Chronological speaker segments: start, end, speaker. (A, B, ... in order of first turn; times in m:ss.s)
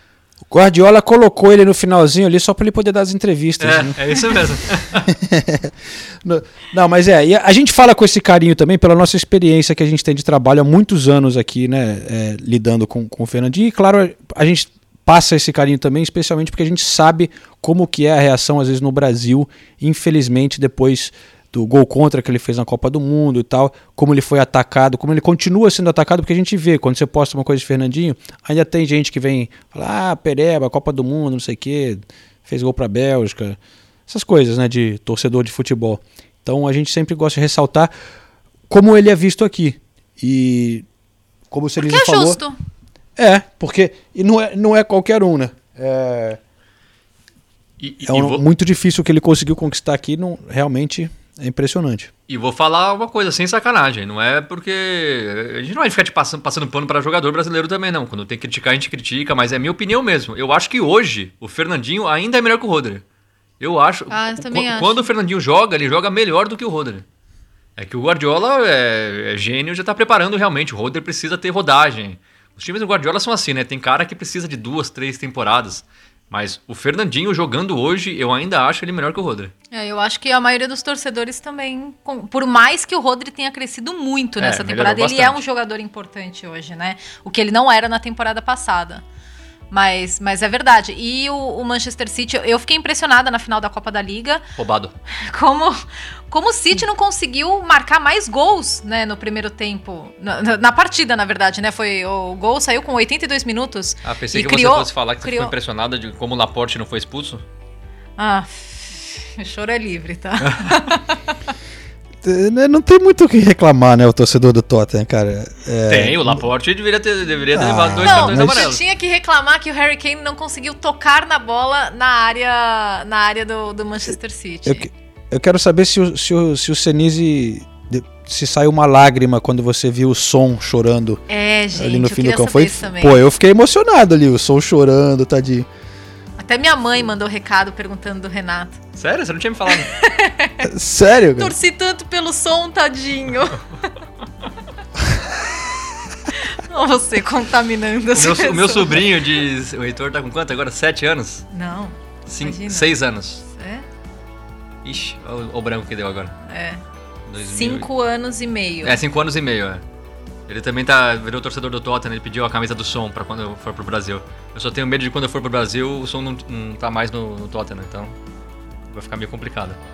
0:00.5-0:04.0 A
0:03.6-0:05.1 B
0:05.1-0:37.9 A
0:38.7-0:40.8 A
0:41.5-0:42.4 A
0:41.8-0:42.6 C
0:43.2-0:46.4 A
0:47.8-0:48.4 B
0:48.0-0:52.1 A
0:52.3-1:03.0 B
1:03.6-1:07.0 B
1:04.1-1:05.1 C
1:07.8-1:19.5 B
1:19.7-1:29.0 C
1:24.4-1:25.4 B
1:29.7-1:34.4 C
1:34.6-1:34.9 B
1:35.2-1:35.8 C
1:36.3-1:45.5 C
1:44.0-1:47.4 B
1:48.2-1:51.4 C
1:50.4-1:51.0 B
1:52.2-1:56.5 A
1:55.9-1:58.8 B
1:57.5-1:58.6 A
1:58.0-2:04.9 C
2:04.6-2:11.2 A
2:11.3-2:13.2 C
2:11.7-2:15.7 A
2:16.4-2:18.8 C
2:19.0-2:19.9 B
2:19.7-2:20.7 C
2:20.6-2:21.5 A
2:21.4-2:23.6 C
2:26.4-2:29.0 C
2:28.1-2:31.4 B
2:31.5-2:33.0 C
2:32.3-2:33.4 B
2:33.5-2:33.8 C
2:34.8-2:36.3 B
2:36.5-2:36.8 C
2:37.3-2:37.9 B
2:37.4-2:39.0 C
2:38.8-2:39.8 B
2:40.5-2:48.1 B
2:48.9-2:49.8 B